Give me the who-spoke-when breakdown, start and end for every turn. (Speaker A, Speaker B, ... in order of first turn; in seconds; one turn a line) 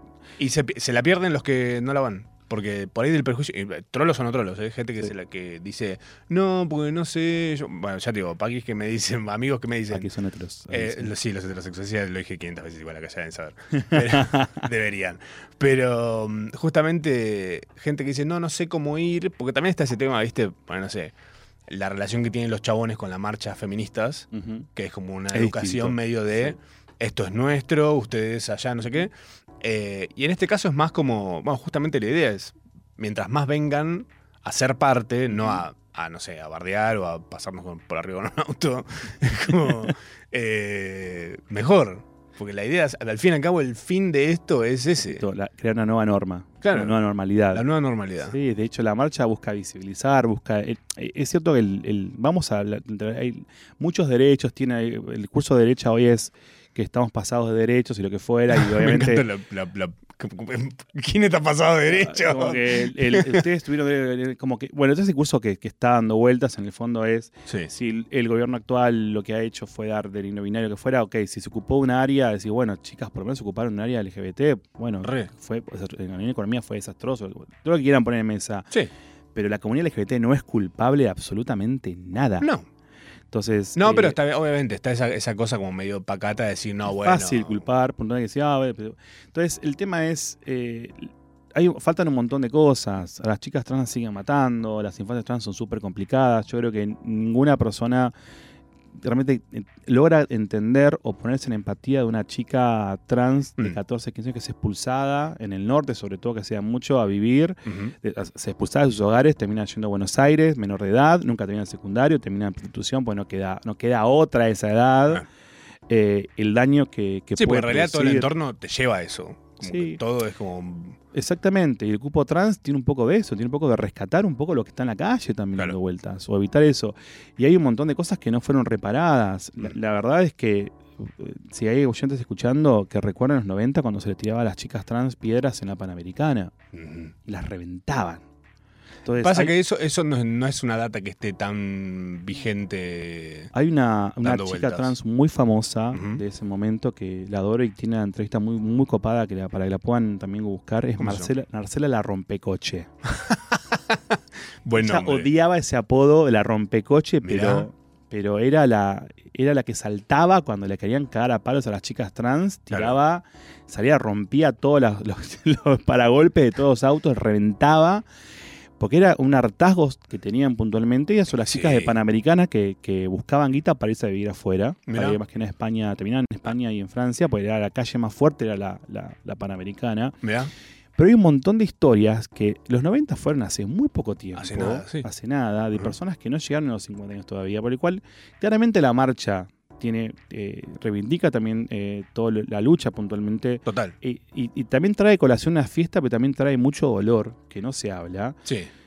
Speaker A: 0.4-10.1
Speaker B: 9.9-11.1
Speaker A: 10.7-21.1
Speaker B: 13.9-14.5
Speaker A: 21.7-45.2
Speaker B: 24.3-24.7
Speaker B: 25.3-26.0
Speaker B: 45.0-47.6
Speaker A: 46.6-47.0
Speaker A: 47.5-48.3
Speaker B: 48.3-59.2
Speaker A: 58.5-63.4
Speaker B: 61.9-78.7
Speaker A: 75.0-75.3
Speaker B: 79.3-82.5
Speaker B: 83.3-84.2
Speaker A: 83.8-87.6
Speaker B: 86.9-98.1
Speaker B: 99.0-115.2
Speaker A: 107.7-107.9
Speaker B: 115.9-118.3
Speaker A: 117.4-121.0
Speaker B: 119.7-120.0
Speaker B: 121.1-136.5
Speaker A: 136.7-137.1
Speaker B: 137.2-138.2
Speaker B: 139.1-139.5
Speaker A: 139.2-143.5
Speaker B: 143.5-152.9
Speaker A: 144.2-144.9
Speaker A: 145.9-146.2
Speaker A: 151.0-151.3
Speaker A: 153.1-155.3
Speaker B: 154.8-168.0
Speaker A: 157.2-157.7
Speaker B: 168.8-180.2
Speaker A: 171.4-171.9
Speaker A: 174.9-175.2
Speaker A: 180.2-180.5
Speaker B: 181.0-198.4
Speaker A: 184.3-185.1
Speaker A: 193.7-193.9